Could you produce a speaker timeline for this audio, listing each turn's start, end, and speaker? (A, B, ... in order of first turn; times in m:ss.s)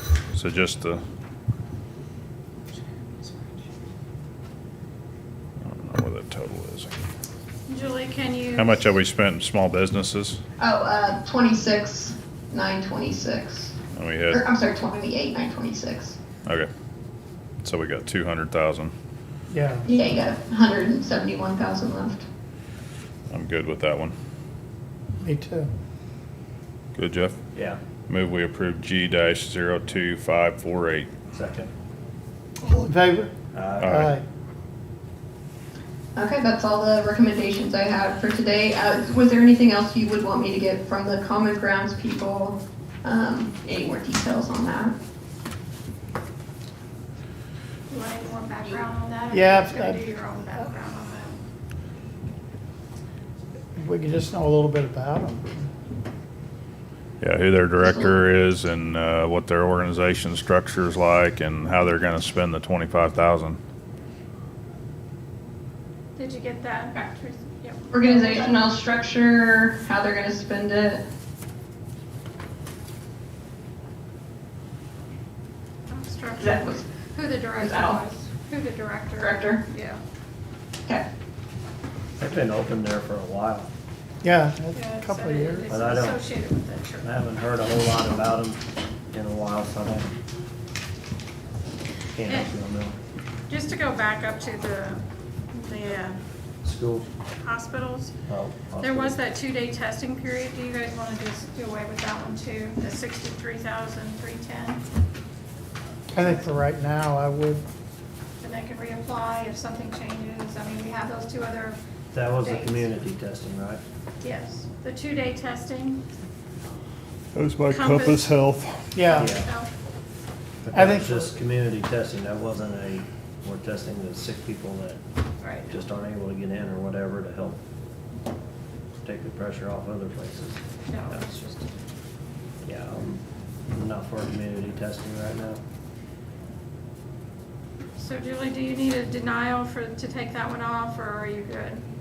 0:00.3-0:01.0 A
0:03.2-0:03.6 B
0:05.6-0:06.9 A
0:07.7-0:08.8 B
0:08.6-0:10.4 A
0:10.6-0:13.8 C
0:13.9-0:14.4 A
0:14.3-0:16.2 C
0:16.4-0:16.7 A
0:17.6-0:18.9 A
0:19.5-0:19.9 D
0:19.8-0:22.2 C
0:23.3-0:24.1 A
0:25.2-0:25.7 D
0:27.0-0:27.4 A
0:27.5-0:27.8 E
0:28.1-0:31.1 A
0:31.3-0:31.7 E
0:32.6-0:33.3 D
0:33.5-0:34.0 E
0:33.8-0:34.1 A
0:33.9-0:34.2 D
0:36.2-0:45.0 C
0:47.9-0:51.4 B
0:49.3-0:50.0 D
0:53.8-0:55.7 D
0:57.2-1:03.6 A
0:57.8-0:58.2 C
1:06.2-1:08.6 B
1:07.9-1:11.0 C
1:15.9-1:20.0 B
1:16.4-1:16.8 C
1:17.6-1:18.0 C
1:19.2-1:19.6 C
1:22.2-1:23.7 E
1:24.2-1:25.8 D
1:24.7-1:27.1 B
1:25.7-1:26.2 E
1:27.0-1:30.1 E
1:32.2-1:33.0 E
1:32.3-1:32.5 B
1:33.5-1:36.2 B
1:36.6-1:37.1 E
1:37.4-1:38.1 B
1:38.3-1:39.2 E
1:38.8-1:44.8 B
1:46.1-1:47.6 D
1:48.4-1:51.8 B
1:52.1-1:53.8 E
1:52.4-1:52.8 B
1:54.2-1:56.0 B
1:57.3-1:58.9 A
1:57.7-1:58.3 B
1:59.0-1:59.3 D
1:59.1-1:59.7 B
1:59.1-1:59.5 E
2:00.6-2:05.0 E
2:00.7-2:01.3 D
2:05.4-2:05.8 B
2:05.7-2:07.6 E
2:09.0-2:11.2 E
2:10.9-2:11.7 B
2:12.6-2:15.6 E
2:18.0-2:21.8 B